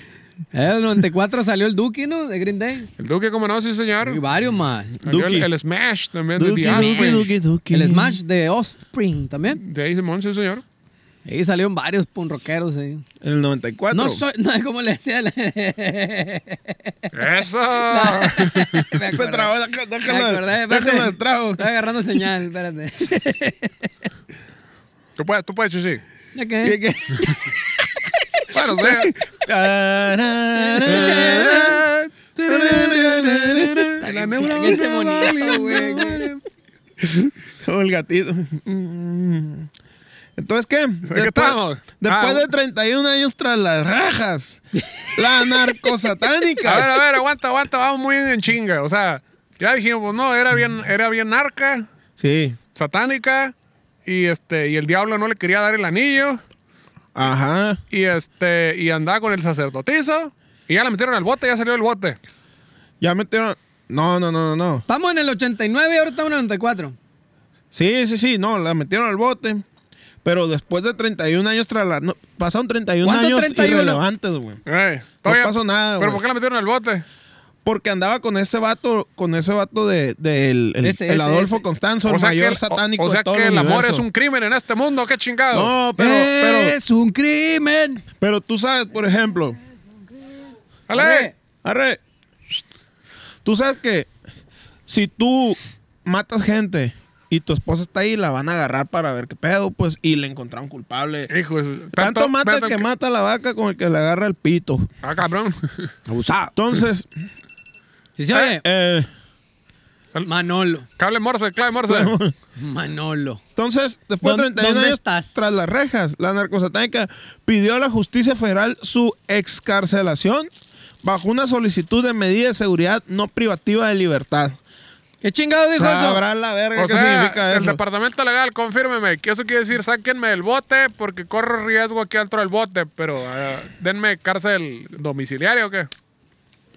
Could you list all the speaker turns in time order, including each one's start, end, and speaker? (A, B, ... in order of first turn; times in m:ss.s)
0:00.5-0:02.9 A
0:03.0-0:04.2 B
0:04.0-0:05.0 A
0:05.0-0:07.3 B
0:05.0-0:05.5 C
0:06.4-0:08.2 C
0:06.6-0:09.6 A
0:09.6-0:10.6 B
0:11.2-0:13.0 A
0:13.2-0:14.2 C
0:13.9-0:17.1 A
0:17.1-0:18.9 B
0:17.9-0:19.5 A
0:19.1-0:21.6 C
0:20.0-0:23.7 A
0:25.2-0:26.0 B
0:26.3-0:26.8 A
0:26.6-0:36.3 C
0:28.5-0:29.1 B
0:30.8-0:31.8 A
0:32.4-0:36.4 A
0:34.3-0:35.8 B
0:37.0-0:39.7 C
0:40.4-0:44.6 C
0:41.0-0:42.5 B
0:44.8-0:45.5 A
0:45.1-0:46.9 C
0:46.6-0:51.8 B
0:52.2-0:52.6 C
0:52.7-0:53.5 B
0:54.0-0:56.4 B
0:57.1-0:57.8 C
0:57.9-1:02.2 B
1:03.0-1:04.8 C
1:04.9-1:07.0 A
1:07.7-1:09.6 C
1:10.2-1:14.6 C
1:13.0-1:14.0 A
1:14.6-1:17.0 B
1:15.2-1:16.2 C
1:17.6-1:24.0 C
1:20.8-1:21.6 A
1:22.0-1:25.7 B
1:25.5-1:26.8 C
1:26.0-1:28.0 A
1:28.2-1:29.6 C
1:30.9-1:31.3 B
1:30.9-1:31.3 A
1:31.6-1:32.6 C
1:33.4-1:34.1 C
1:34.9-1:41.3 C
1:41.3-1:42.8 B
1:41.9-1:44.9 C
1:45.0-1:45.9 B
1:46.1-1:46.5 A
1:46.6-1:47.1 C
1:48.2-1:48.6 A
1:48.3-1:49.1 C
1:50.2-1:50.8 A
1:51.0-1:52.1 B
1:51.9-1:52.3 C
1:52.6-1:53.4 A
1:53.6-2:00.5 C
1:54.2-1:55.4 A
2:01.0-2:04.6 C
2:05.2-2:06.2 A
2:05.8-2:07.8 C
2:06.7-2:15.9 B